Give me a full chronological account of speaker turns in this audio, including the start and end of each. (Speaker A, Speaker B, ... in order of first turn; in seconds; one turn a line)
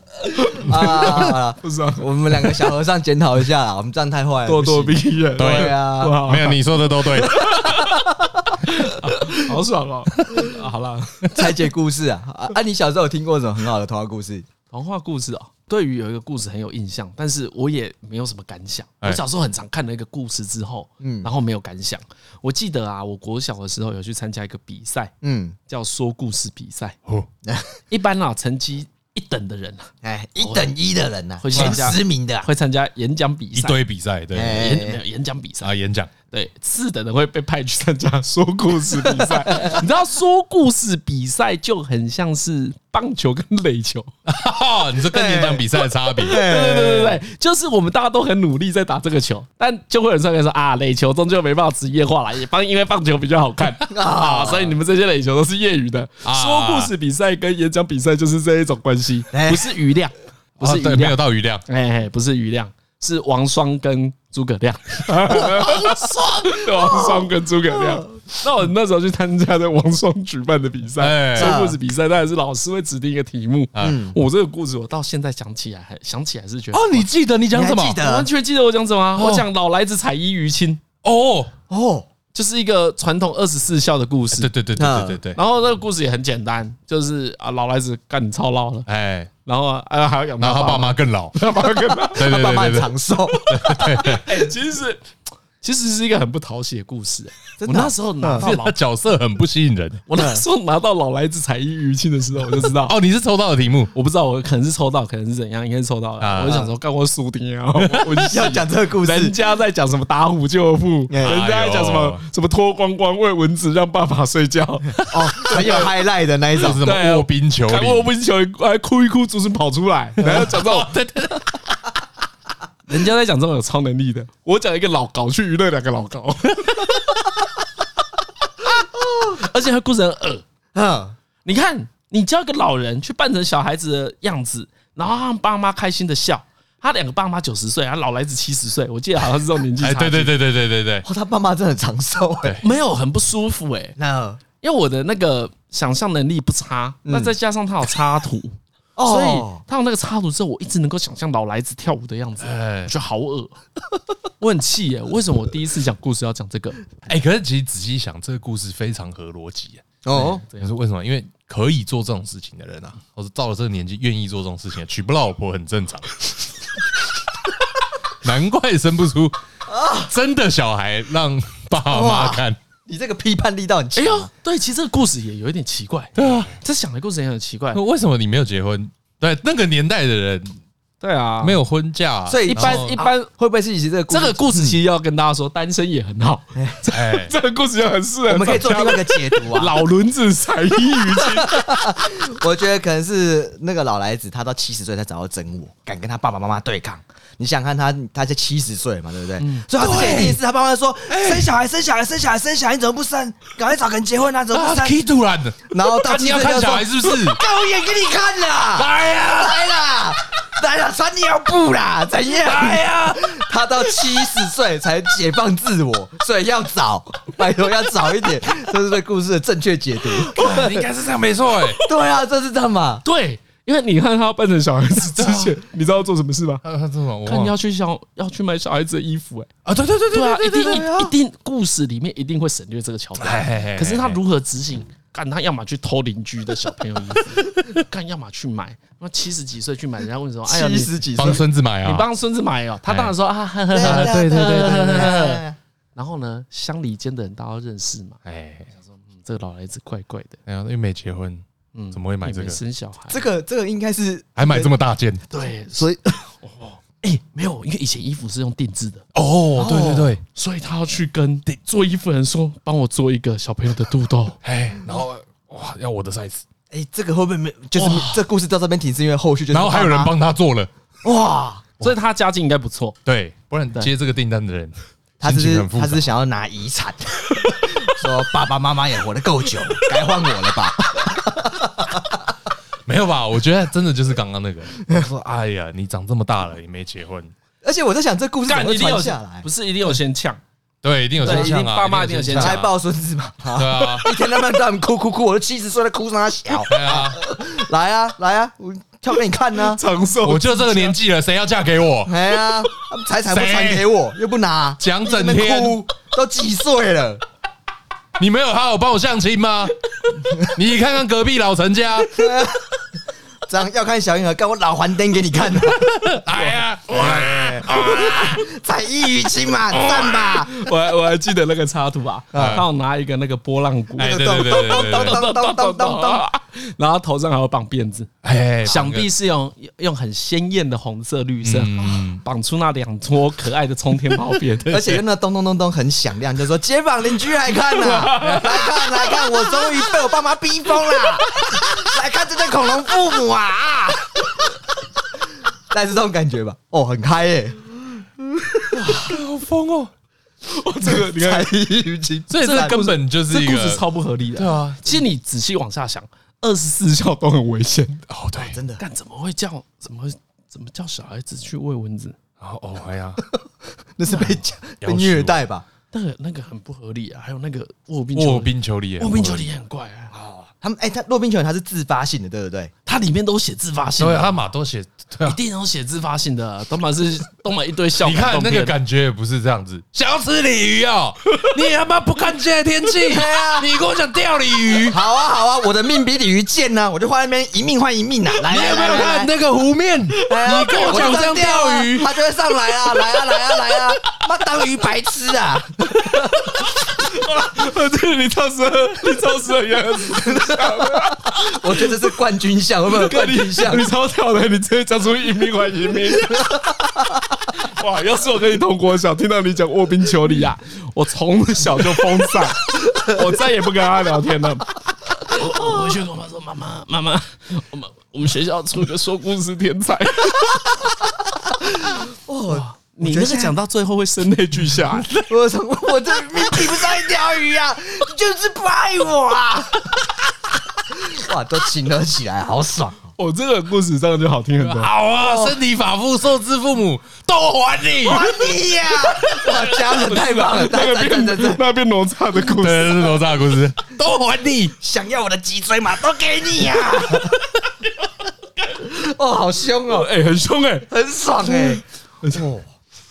Speaker A: 0.3-2.6
Speaker B: 0.5-6.3
Speaker A: 4.5-6.6
Speaker C: 5.4-7.5
Speaker A: 7.1-11.4
Speaker B: 7.6-8.0
Speaker B: 11.3-14.5
Speaker A: 14.7-25.1
Speaker B: 21.0-21.3
Speaker B: 25.2-25.6
Speaker A: 25.7-27.0
Speaker A: 27.9-30.7
Speaker B: 30.0-32.5
Speaker A: 31.4-33.8
Speaker C: 31.5-31.8
Speaker C: 33.5-34.8
Speaker B: 34.3-35.0
Speaker A: 34.5-35.7
Speaker C: 35.6-36.1
Speaker A: 36.3-44.1
Speaker B: 39.2-39.8
Speaker C: 44.3-46.4
Speaker B: 45.1-47.2
Speaker A: 46.2-77.1
Speaker B: 53.9-54.8
Speaker C: 56.2-56.9
Speaker B: 59.3-59.7
Speaker C: 60.6-61.6
Speaker B: 65.5-68.0
Speaker C: 71.0-71.6
Speaker B: 71.4-71.8
Speaker C: 73.8-74.0
Speaker B: 73.8-74.2
Speaker C: 76.7-78.0
Speaker B: 77.5-78.3
Speaker A: 78.0-80.8
Speaker C: 79.2-79.5
Speaker C: 81.0-81.5
Speaker B: 81.7-82.1
Speaker A: 82.3-84.5
Speaker C: 84.3-85.4
Speaker B: 84.8-85.2
Speaker A: 85.3-88.9
Speaker C: 88.9-89.3
Speaker A: 89.5-92.3
Speaker C: 90.4-91.4
Speaker B: 91.9-94.2
Speaker C: 92.2-92.9
Speaker C: 93.5-94.2
Speaker A: 93.7-95.1
Speaker A: 95.6-98.8
Speaker B: 97.6-98.5
Speaker C: 98.4-100.0
Speaker A: 100.1-103.0
Speaker B: 100.2-100.4
Speaker C: 102.8-103.9
Speaker A: 103.9-115.9
Speaker C: 106.2-106.7
Speaker C: 107.8-108.3
Speaker B: 108.2-109.3
Speaker B: 111.1-111.4
Speaker C: 111.2-112.2
Speaker C: 115.0-115.7
Speaker B: 115.1-116.8
Speaker C: 116.5-118.1
Speaker A: 116.8-121.3
Speaker C: 120.2-121.4
Speaker A: 122.9-126.9
Speaker B: 128.9-129.4
Speaker A: 129.3-130.4
Speaker B: 130.7-131.2
Speaker A: 131.4-140.3
Speaker C: 139.8-141.1
Speaker B: 141.0-142.6
Speaker A: 142.6-144.0
Speaker B: 144.0-144.4
Speaker A: 144.6-153.6
Speaker B: 147.1-147.3
Speaker B: 149.0-149.6
Speaker C: 152.4-152.9
Speaker A: 154.4-156.9
Speaker C: 157.1-159.8
Speaker B: 160.0-160.4
Speaker A: 160.1-160.7
Speaker C: 160.6-166.3
Speaker C: 168.2-169.4
Speaker B: 169.7-170.1
Speaker C: 170.0-172.6
Speaker B: 171.9-174.3
Speaker A: 173.9-177.8
Speaker C: 176.2-176.5
Speaker C: 177.7-180.6
Speaker A: 181.0-181.6
Speaker C: 181.4-183.0
Speaker B: 182.3-184.8
Speaker A: 182.5-183.3
Speaker A: 184.1-191.9
Speaker C: 186.9-187.3
Speaker B: 188.3-189.8
Speaker B: 191.2-205.0
Speaker A: 199.4-199.7
Speaker C: 199.8-200.4
Speaker C: 201.1-201.5
Speaker C: 204.5-207.4
Speaker B: 205.7-220.9
Speaker C: 208.8-209.6
Speaker C: 212.4-213.2
Speaker C: 220.2-221.8
Speaker B: 221.8-223.0
Speaker A: 223.0-226.6
Speaker C: 225.2-225.6
Speaker C: 226.6-227.5
Speaker A: 227.3-229.5
Speaker C: 229.7-230.9
Speaker A: 230.1-245.4
Speaker B: 230.6-231.1
Speaker C: 233.2-234.2
Speaker B: 240.5-241.4
Speaker C: 241.2-242.1
Speaker C: 242.9-243.1
Speaker B: 243.7-245.6
Speaker C: 243.8-245.2
Speaker A: 246.0-248.2
Speaker C: 248.2-248.7
Speaker A: 248.8-250.4
Speaker C: 250.5-252.6
Speaker A: 251.7-253.3
Speaker B: 253.1-254.7
Speaker C: 254.4-255.2
Speaker A: 255.3-259.1
Speaker C: 259.1-260.2
Speaker B: 259.6-260.1
Speaker A: 260.3-264.4
Speaker C: 264.4-266.4
Speaker B: 266.7-270.1
Speaker A: 267.8-268.2
Speaker C: 269.5-270.7
Speaker B: 271.0-271.7
Speaker A: 271.8-273.0
Speaker C: 273.1-276.1
Speaker B: 275.2-282.2
Speaker C: 282.9-287.3
Speaker B: 287.6-289.5
Speaker A: 288.5-290.4
Speaker C: 290.8-292.7
Speaker B: 291.2-291.5
Speaker A: 291.2-292.6
Speaker B: 292.4-299.8
Speaker C: 293.6-294.1
Speaker C: 296.7-297.2
Speaker A: 299.6-300.9
Speaker C: 300.2-302.2
Speaker B: 302.1-307.2
Speaker C: 303.3-303.9
Speaker C: 304.8-305.8
Speaker C: 308.2-309.8
Speaker C: 310.4-312.3
Speaker B: 312.1-312.6
Speaker B: 313.5-315.9
Speaker C: 315.7-318.4
Speaker A: 316.3-318.1
Speaker B: 317.0-320.7
Speaker A: 319.7-328.1
Speaker B: 322.3-322.6
Speaker C: 322.3-322.7
Speaker C: 324.0-325.2
Speaker B: 324.0-326.2
Speaker C: 328.2-329.1
Speaker A: 328.6-334.8
Speaker C: 331.4-332.2
Speaker C: 334.7-335.0
Speaker B: 334.7-344.6
Speaker A: 337.7-338.6
Speaker C: 338.1-338.8
Speaker B: 345.7-349.2
Speaker C: 348.9-349.9
Speaker A: 350.4-351.5
Speaker B: 350.8-352.8
Speaker C: 352.3-353.8
Speaker A: 352.4-358.1
Speaker C: 354.4-355.0
Speaker C: 358.1-358.6
Speaker B: 358.4-358.8
Speaker A: 358.8-362.2
Speaker C: 362.4-363.2
Speaker B: 364.0-365.6
Speaker A: 364.1-364.4
Speaker C: 364.8-365.4
Speaker A: 365.9-370.1
Speaker C: 368.1-369.5
Speaker B: 370.1-372.7
Speaker A: 372.9-374.4
Speaker C: 374.0-375.4
Speaker A: 375.2-378.7
Speaker C: 378.0-385.0
Speaker B: 383.1-383.7
Speaker B: 384.9-389.3
Speaker C: 388.4-392.1
Speaker B: 390.2-396.3
Speaker A: 390.5-391.2
Speaker A: 396.1-401.9
Speaker B: 400.1-403.9
Speaker A: 402.9-406.6
Speaker A: 407.5-420.8
Speaker B: 421.5-423.6
Speaker A: 422.5-425.2
Speaker B: 425.1-430.0
Speaker B: 430.9-433.1
Speaker A: 433.2-434.9
Speaker C: 434.6-438.3
Speaker B: 435.2-435.6
Speaker B: 438.0-441.6
Speaker A: 439.2-443.2
Speaker C: 442.4-444.8
Speaker B: 444.8-447.5
Speaker B: 448.8-450.1
Speaker A: 449.9-450.9
Speaker B: 450.9-452.7
Speaker A: 451.4-452.5